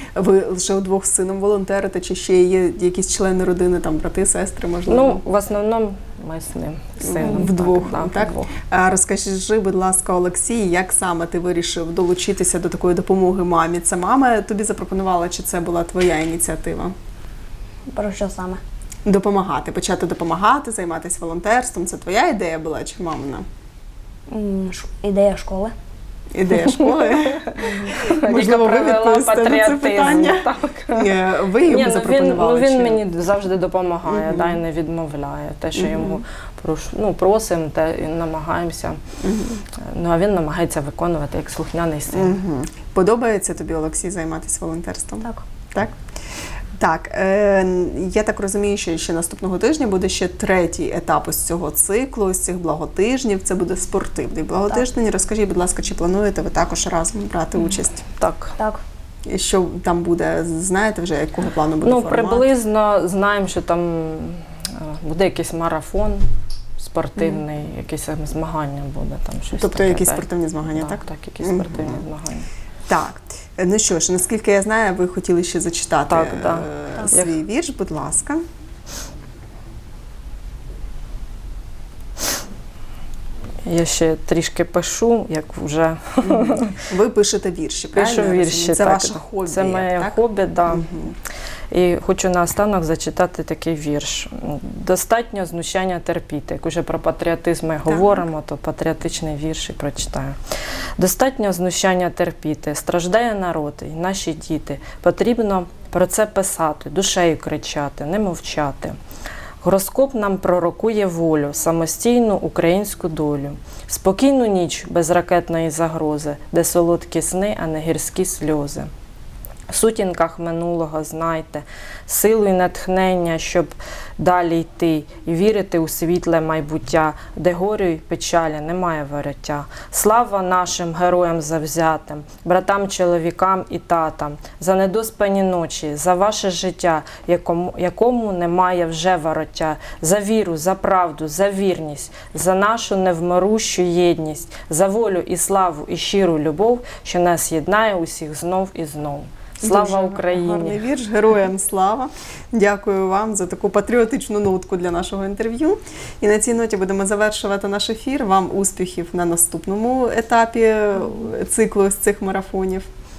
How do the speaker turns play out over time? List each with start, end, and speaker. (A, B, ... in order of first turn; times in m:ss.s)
0:00.2-0:05.2 A
0:04.9-0:08.5 B
0:07.0-0:16.9 A
0:17.9-0:18.6 C
0:19.0-0:23.5 A
0:24.3-0:25.7 C
0:26.3-0:33.0 A
0:27.2-0:31.1 B
0:31.6-0:39.0 B
0:34.1-0:34.6 A
0:35.8-0:36.2 A
0:39.2-0:39.6 A
0:39.8-0:42.4 B
0:42.1-0:46.0 A
0:46.8-0:58.0 A
0:58.2-0:58.6 B
0:59.3-1:02.5 A
1:01.8-1:06.2 B
1:06.8-1:12.5 B
1:07.2-1:07.4 A
1:09.5-1:12.0 A
1:12.9-1:18.4 A
1:16.1-1:17.4 B
1:23.6-1:26.8 B
1:26.4-1:31.2 A
1:27.9-1:30.8 B
1:31.7-1:40.4 B
1:37.9-1:38.2 A
1:41.0-1:49.0 B
1:49.6-1:58.9 B
1:59.7-2:30.8 B
2:29.6-2:42.9 A